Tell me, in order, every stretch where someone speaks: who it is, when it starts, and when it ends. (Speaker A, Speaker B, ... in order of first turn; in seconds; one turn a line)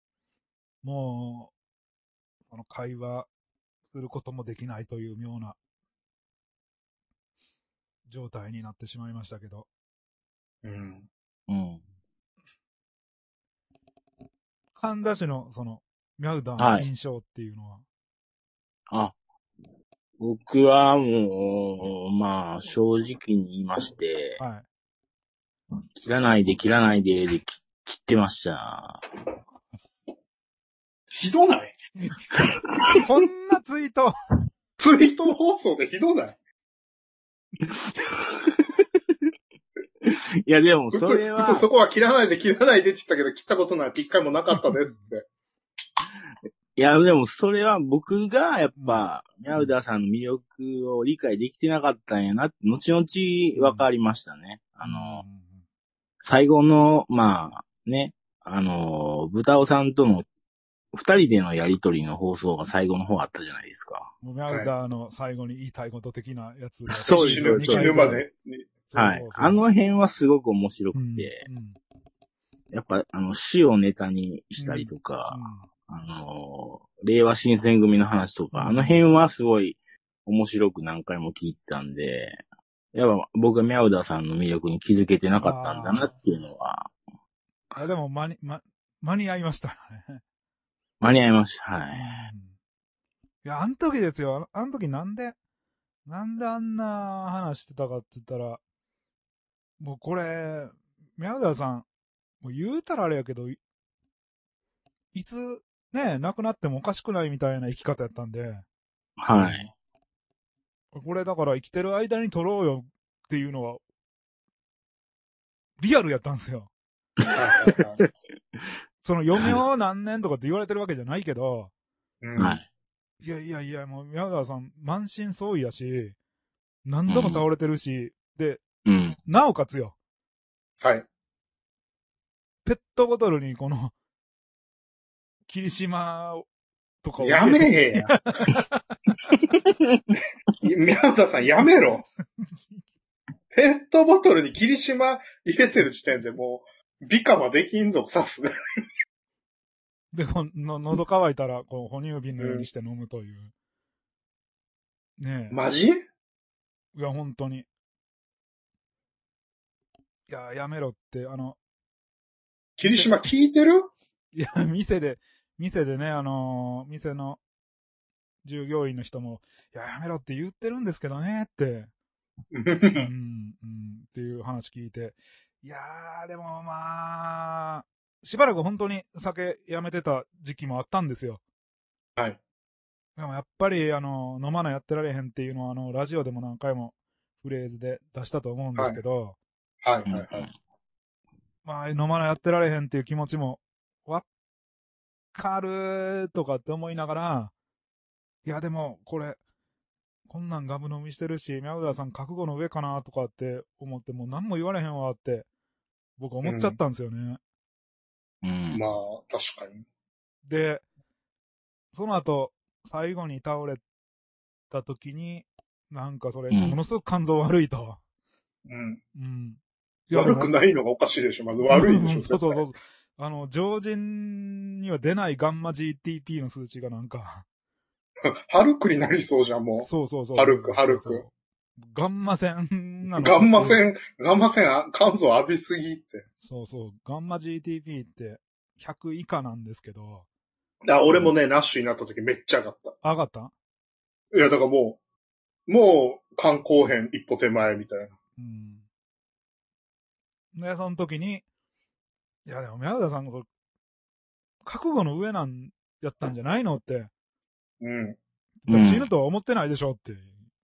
Speaker A: 0.8-1.5
Speaker A: 2.5-3.3
Speaker A: 3.9-5.5
Speaker A: 8.1-9.7
Speaker B: 10.6-11.1
Speaker C: 11.5-11.8
Speaker A: 14.8-17.8
Speaker C: 16.6-16.9
Speaker C: 18.9-19.1
Speaker C: 20.2-24.4
Speaker A: 24.4-24.6
Speaker C: 26.0-29.0
Speaker B: 31.1-31.8
Speaker A: 32.0-32.3
Speaker A: 32.9-34.1
Speaker B: 34.8-36.4
Speaker C: 40.0-41.6
Speaker B: 40.9-45.2
Speaker C: 46.8-55.2
Speaker A: 48.8-49.7
Speaker A: 53.5-53.9
Speaker A: 54.8-55.6
Speaker C: 56.2-60.2
Speaker C: 60.9-64.1
Speaker A: 64.2-68.2
Speaker C: 66.9-68.2
Speaker B: 67.0-68.7
Speaker A: 68.9-69.6
Speaker C: 68.9-71.4
Speaker A: 70.9-71.8
Speaker C: 72.7-82.4
Speaker A: 74.6-75.7
Speaker A: 78.5-79.0
Speaker C: 82.9-86.9
Speaker A: 85.4-86.1
Speaker A: 87.8-90.2
Speaker C: 91.0-92.3
Speaker A: 91.9-92.5
Speaker A: 93.4-95.3
Speaker A: 96.0-98.6
Speaker A: 99.8-101.8
Speaker A: 102.4-103.6
Speaker A: 105.1-108.6
Speaker C: 109.2-109.7
Speaker A: 109.3-109.7
Speaker A: 110.9-113.8
Speaker A: 115.8-116.7
Speaker B: 117.3-118.0
Speaker A: 119.0-121.7
Speaker B: 122.2-122.6
Speaker C: 122.4-122.6
Speaker A: 123.2-126.2
Speaker A: 126.8-128.6
Speaker C: 127.1-127.4
Speaker C: 128.8-129.2
Speaker A: 129.2-129.9
Speaker B: 130.8-131.1
Speaker A: 132.6-133.9
Speaker A: 135.5-136.4
Speaker A: 137.0-139.0
Speaker B: 137.2-138.2
Speaker B: 140.6-142.0
Speaker B: 143.5-148.5
Speaker A: 150.1-153.5
Speaker B: 152.4-152.7
Speaker A: 155.2-155.6
Speaker B: 155.5-156.0
Speaker A: 156.9-157.7
Speaker A: 160.3-161.6
Speaker B: 162.8-163.9
Speaker A: 162.8-163.2
Speaker A: 164.3-167.4
Speaker A: 168.4-171.9
Speaker B: 172.5-173.1
Speaker A: 173.0-181.4
Speaker A: 183.2-189.4
Speaker B: 189.8-190.5
Speaker C: 190.1-190.5
Speaker A: 191.6-194.2
Speaker A: 195.3-197.5
Speaker A: 198.4-199.4
Speaker A: 200.3-205.5
Speaker A: 206.2-207.4
Speaker B: 206.4-206.8
Speaker C: 208.4-208.8
Speaker B: 208.7-209.8
Speaker A: 210.4-210.8
Speaker A: 211.9-213.8
Speaker A: 214.7-218.0
Speaker C: 216.5-216.8
Speaker B: 218.7-219.0
Speaker A: 219.1-220.5
Speaker B: 220.1-222.6
Speaker A: 221.7-227.4
Speaker B: 228.5-231.2
Speaker A: 229.8-233.8
Speaker B: 233.1-236.2
Speaker A: 236.4-240.2
Speaker B: 240.8-242.9
Speaker A: 243.0-243.5
Speaker B: 244.3-245.0
Speaker B: 245.7-248.1
Speaker A: 248.4-248.8
Speaker A: 250.5-251.4
Speaker A: 252.4-253.4
Speaker A: 254.6-257.1
Speaker B: 257.8-258.2
Speaker A: 258.6-260.4
Speaker C: 258.7-259.1